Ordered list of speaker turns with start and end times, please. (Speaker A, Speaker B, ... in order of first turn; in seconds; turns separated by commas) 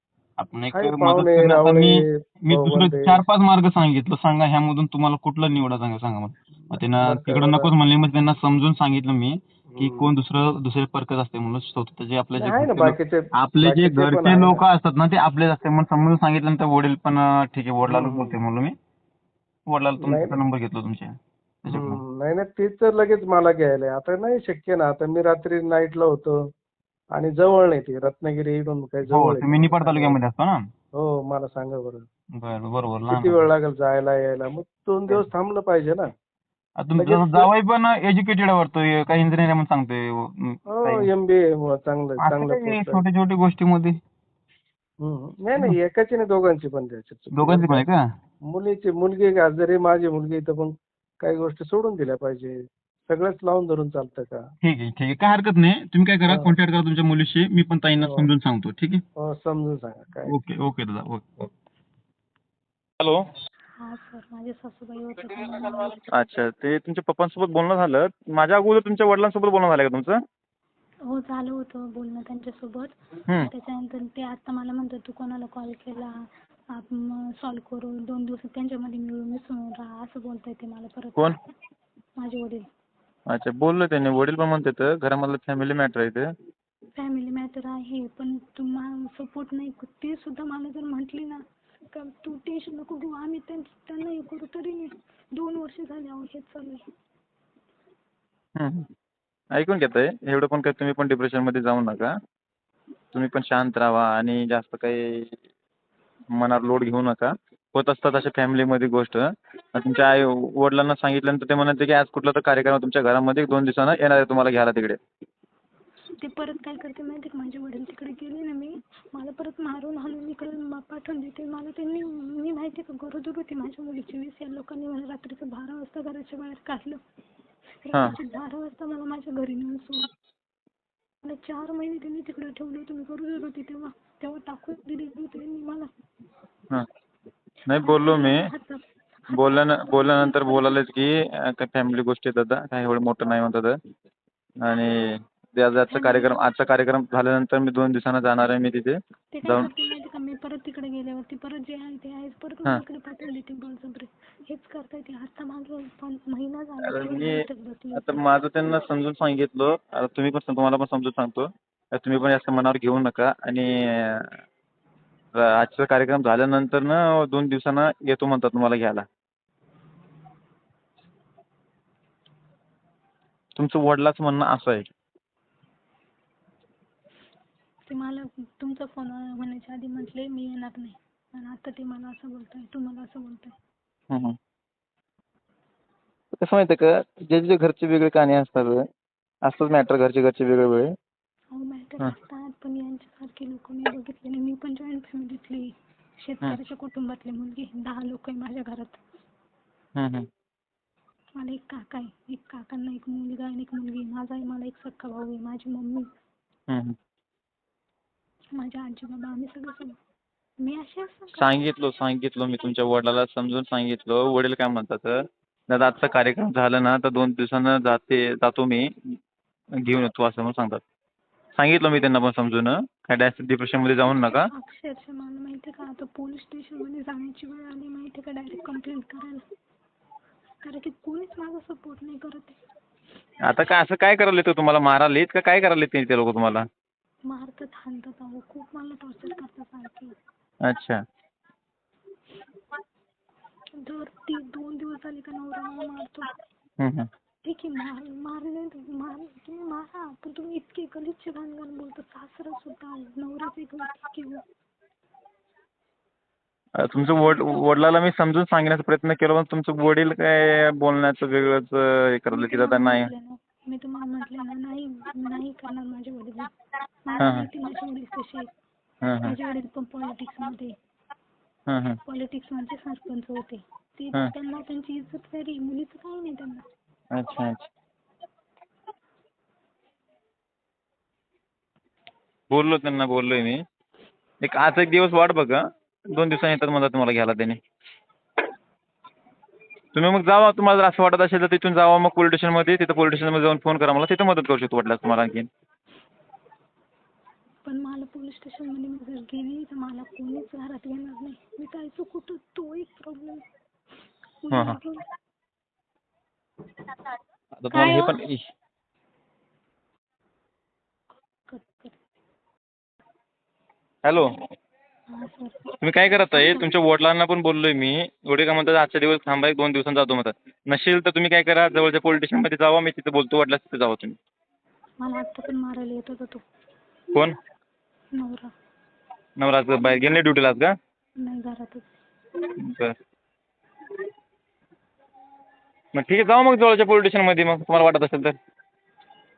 Speaker A: 0.4-18.7, Speaker B: 0.7-3.2, Speaker B: 6.7-7.7, Speaker B: 9.7-10.1, Speaker B: 12.4-14.6, Speaker B: 17.9-18.4, Speaker A: 19.7-22.0, Speaker B: 20.0-20.4, Speaker B: 21.7-26.5, Speaker B: 27.1-30.2, Speaker A: 29.1-30.7, Speaker B: 30.9-32.1, Speaker A: 32.3-33.4, Speaker B: 33.1-36.1, Speaker A: 36.8-41.1, Speaker B: 37.0-37.5, Speaker B: 40.7-43.0, Speaker A: 42.2-44.0, Speaker B: 45.0-47.8, Speaker A: 47.3-48.0, Speaker B: 48.5-54.5, Speaker A: 54.6-59.0, Speaker B: 56.3-56.5, Speaker B: 58.0-58.3, Speaker B: 59.1-60.4, Speaker A: 60.2-61.5, Speaker A: 63.0-63.3, Speaker C: 63.8-66.0, Speaker A: 66.0-70.2, Speaker C: 71.0-81.3, Speaker C: 82.2-82.7, Speaker A: 83.3-86.3, Speaker C: 87.0-96.8, Speaker A: 98.5-98.9, Speaker A: 99.5-102.1, Speaker A: 103.1-105.4, Speaker A: 106.3-115.0, Speaker C: 116.2-127.0, Speaker C: 127.8-130.1, Speaker C: 131.2-135.9, Speaker A: 137.7-138.5, Speaker C: 137.8-140.8, Speaker A: 139.3-143.8, Speaker A: 144.6-149.7, Speaker C: 145.9-146.4, Speaker C: 149.3-158.3, Speaker A: 156.8-164.4, Speaker A: 165.3-169.0, Speaker A: 173.6-174.9, Speaker C: 177.9-183.6, Speaker A: 184.1-184.4, Speaker A: 186.3-188.8, Speaker A: 189.4-190.9, Speaker C: 191.5-199.0, Speaker A: 199.9-200.3, Speaker C: 201.3-206.1, Speaker A: 206.7-206.9, Speaker C: 208.5-210.0, Speaker C: 210.6-211.6, Speaker A: 211.3-219.2, Speaker A: 219.8-220.8, Speaker A: 221.6-224.5, Speaker C: 224.0-229.4, Speaker C: 230.6-232.6, Speaker A: 233.4-236.6, Speaker C: 237.2-240.1, Speaker A: 240.6-241.0, Speaker C: 243.8-246.4, Speaker A: 246.8-247.1, Speaker C: 247.4-254.4, Speaker A: 256.8-263.1, Speaker C: 257.3-257.6, Speaker C: 262.3-266.5, Speaker C: 267.0-268.5, Speaker A: 267.2-267.5, Speaker A: 269.0-269.4, Speaker C: 269.2-270.7, Speaker A: 271.7-272.0, Speaker C: 272.0-276.6, Speaker A: 277.1-277.6, Speaker A: 282.5-283.6, Speaker A: 284.4-287.6, Speaker A: 289.9-295.5, Speaker C: 297.6-303.4, Speaker C: 304.4-305.0, Speaker A: 304.5-304.8, Speaker A: 307.6-308.5, Speaker C: 307.7-308.2, Speaker C: 311.5-312.0, Speaker A: 314.0-314.4, Speaker C: 315.1-315.6, Speaker A: 315.8-324.1, Speaker C: 316.3-316.8, Speaker C: 325.0-326.4, Speaker C: 328.1-328.5, Speaker A: 329.4-330.7, Speaker C: 331.2-331.9, Speaker A: 332.4-333.0, Speaker A: 335.9-338.4